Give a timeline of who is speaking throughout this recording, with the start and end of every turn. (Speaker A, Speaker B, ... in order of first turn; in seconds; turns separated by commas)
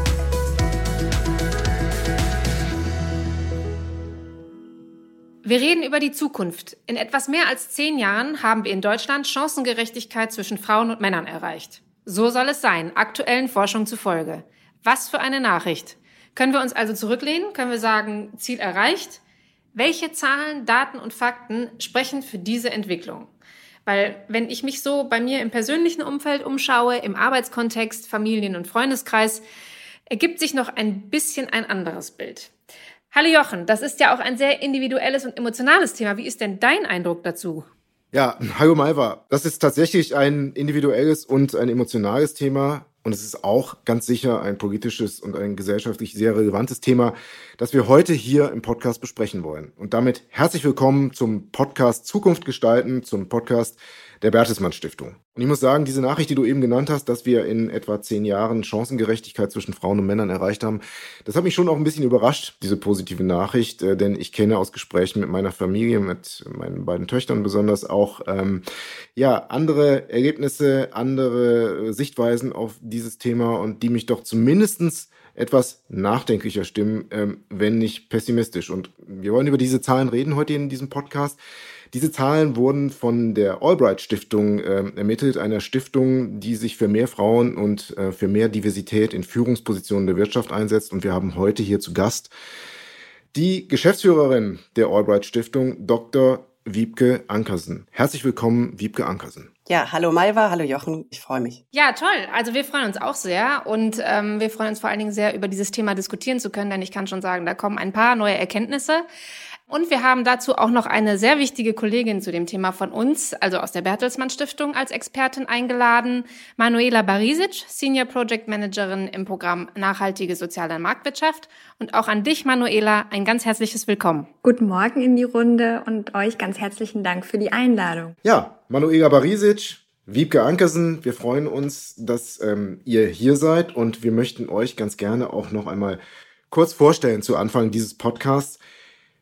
Speaker A: 5.4-19.2, Speaker A: 19.7-23.3, Speaker A: 23.9-29.4, Speaker A: 30.1-32.5, Speaker A: 33.1-37.6, Speaker B: 38.1-68.6, Speaker B: 69.2-81.4, Speaker B: 81.9-92.3, Speaker B: 93.3-99.5, Speaker C: 99.7-101.6, Speaker A: 101.7-109.0, Speaker A: 109.7-124.3, Speaker D: 124.4-128.1, Speaker B: 128.2-136.0, Speaker B: 136.5-138.6